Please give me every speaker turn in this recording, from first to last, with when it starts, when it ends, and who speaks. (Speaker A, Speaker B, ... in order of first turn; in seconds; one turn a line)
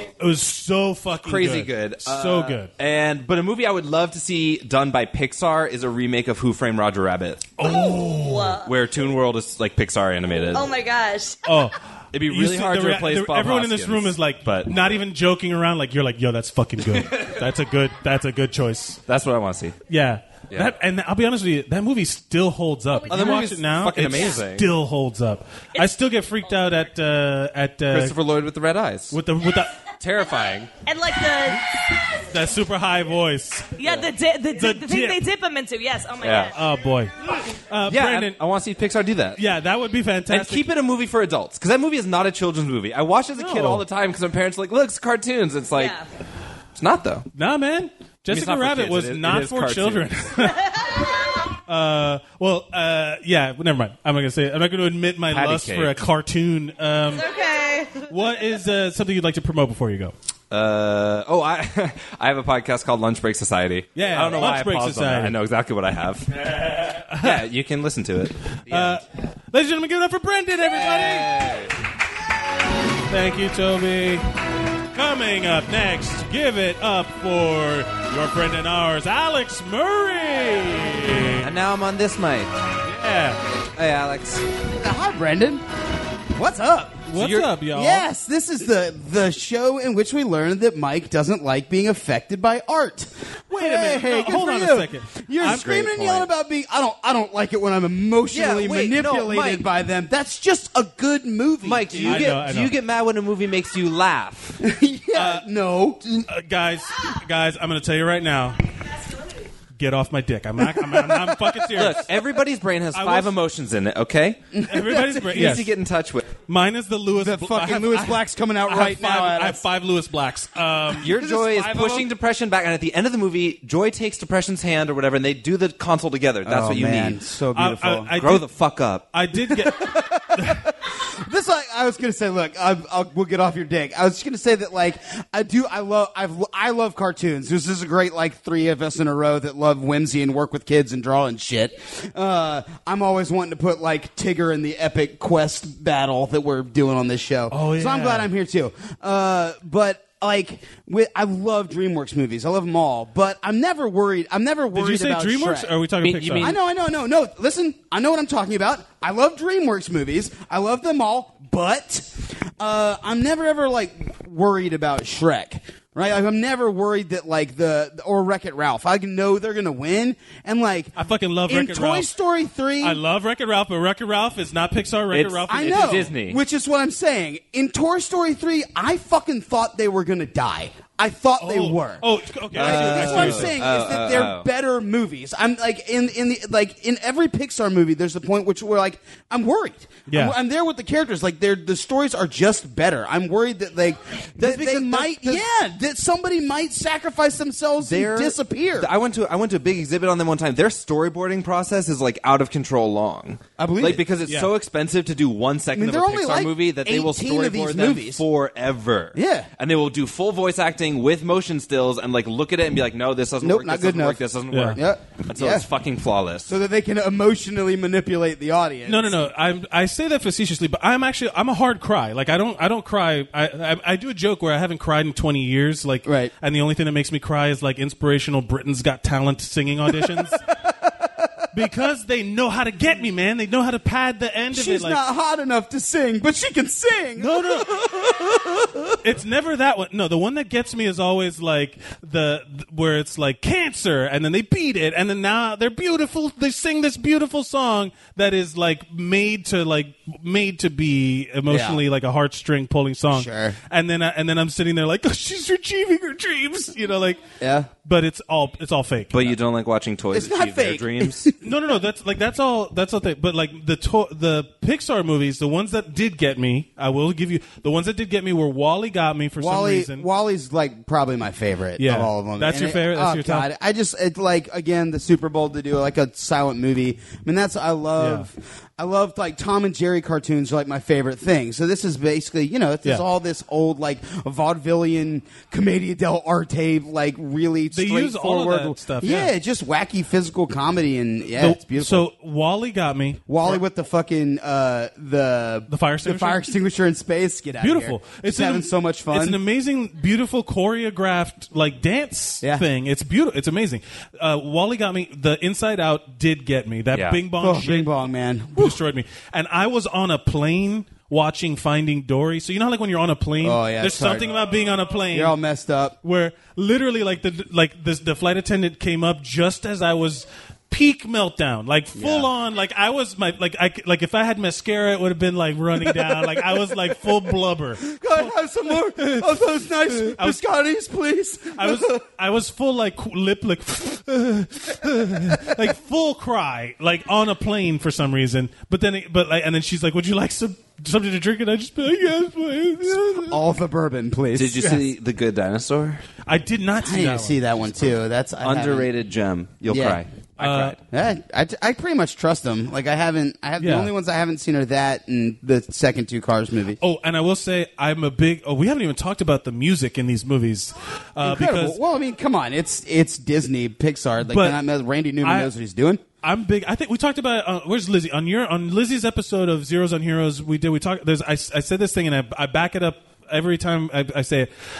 Speaker A: 0.2-2.7
Speaker B: 1.2-7.6
Speaker A: 7.6-8.6
Speaker C: 7.6-8.7
Speaker B: 8.7-10.7
Speaker C: 10.5-11.6
Speaker A: 11.4-19.0
Speaker B: 12.1-14.7
Speaker B: 16.9-17.3
Speaker B: 19.1-19.8
Speaker A: 19.9-28.2
Speaker C: 22.9-23.5
Speaker B: 23.1-24.7
Speaker B: 27.9-29.2
Speaker A: 29.1-29.8
Speaker B: 30.0-30.7
Speaker C: 30.8-32.2
Speaker A: 32.3-33.9
Speaker C: 33.8-36.5
Speaker A: 34.5-35.2
Speaker B: 36.2-36.5
Speaker A: 36.5-37.1
Speaker A: 37.7-38.4
Speaker B: 37.9-39.4
Speaker A: 39.4-40.7
Speaker B: 40.3-46.0
Speaker A: 43.4-43.9
Speaker C: 45.7-46.0
Speaker B: 46.7-47.2
Speaker A: 47.3-50.6
Speaker B: 48.3-50.3
Speaker C: 50.5-51.2
Speaker A: 51.7-57.3
Speaker B: 55.3-56.1
Speaker C: 57.1-58.1
Speaker A: 58.1-60.1
Speaker B: 60.5-66.7
Speaker A: 63.9-65.4
Speaker A: 67.0-67.4
Speaker B: 67.2-69.0
Speaker A: 68.7-71.5
Speaker B: 70.7-71.7
Speaker A: 73.1-74.2
Speaker A: 74.9-81.5
Speaker B: 81.4-82.5
Speaker A: 82.8-83.4
Speaker B: 83.8-84.4
Speaker D: 84.8-85.6
Speaker D: 86.3-87.1
Speaker A: 87.1-88.1
Speaker B: 87.1-87.6
Speaker D: 87.7-102.3
Speaker A: 93.5-96.3
Speaker B: 95.5-95.8
Speaker B: 98.3-99.7
Speaker B: 101.6-104.6
Speaker A: 102.0-102.7
Speaker D: 104.6-106.0
Speaker A: 105.1-105.5
Speaker A: 106.2-108.6
Speaker A: 109.8-112.1
Speaker D: 110.9-111.6
Speaker B: 111.8-114.5
Speaker A: 112.9-113.3
Speaker D: 114.5-115.1
Speaker A: 114.6-115.7
Speaker B: 115.2-116.2
Speaker A: 116.5-122.0
Speaker D: 117.2-119.6
Speaker B: 121.0-127.3
Speaker D: 121.1-122.1
Speaker D: 126.4-128.2
Speaker A: 127.5-128.5
Speaker B: 128.2-129.1
Speaker A: 129.1-130.6
Speaker D: 129.7-130.6
Speaker D: 131.2-155.7
Speaker A: 147.5-148.3
Speaker A: 154.7-156.5
Speaker B: 156.0-156.6
Speaker D: 156.4-170.9
Speaker A: 170.9-172.1
Speaker D: 171.5-173.0
Speaker A: 172.8-176.0
Speaker B: 175.1-176.4
Speaker D: 175.5-198.9
Speaker A: 181.4-183.6
Speaker B: 182.5-184.5
Speaker A: 190.1-190.3
Speaker B: 194.4-195.5
Speaker B: 197.8-216.5
Speaker D: 203.6-204.1
Speaker A: 204.2-204.5
Speaker D: 205.7-208.2
Speaker D: 209.1-209.5
Speaker D: 213.4-215.7
Speaker A: 214.5-214.8
Speaker D: 216.5-219.2
Speaker A: 218.8-230.4
Speaker D: 226.0-226.3
Speaker A: 231.5-235.0
Speaker D: 234.5-238.9
Speaker A: 237.2-237.7
Speaker A: 239.0-257.2
Speaker D: 251.5-251.8
Speaker D: 253.1-253.6
Speaker D: 257.4-257.7
Speaker A: 257.8-259.3
Speaker B: 259.1-261.3
Speaker D: 260.1-261.3
Speaker A: 261.4-270.1
Speaker D: 269.4-292.1
Speaker A: 271.8-273.5
Speaker A: 278.0-278.3
Speaker A: 287.7-289.3
Speaker A: 291.4-293.6
Speaker D: 293.3-299.4
Speaker A: 295.7-296.4
Speaker A: 297.6-307.9
Speaker B: 306.9-307.3
Speaker D: 307.3-308.8
Speaker A: 308.5-315.4
Speaker D: 313.4-314.3
Speaker D: 315.1-315.9
Speaker A: 316.0-330.4
Speaker D: 321.9-322.3
Speaker D: 326.1-326.6
Speaker D: 327.8-332.0
Speaker A: 331.5-343.4
Speaker D: 343.1-344.7
Speaker B: 344.3-346.0
Speaker A: 346.3-347.5
Speaker D: 346.8-348.9
Speaker B: 348.4-350.8
Speaker D: 349.7-350.0
Speaker A: 350.4-350.8
Speaker D: 350.9-356.8
Speaker A: 353.6-353.9
Speaker A: 356.8-361.8
Speaker D: 361.2-366.0
Speaker A: 364.2-364.6
Speaker A: 365.2-365.5
Speaker A: 366.2-374.5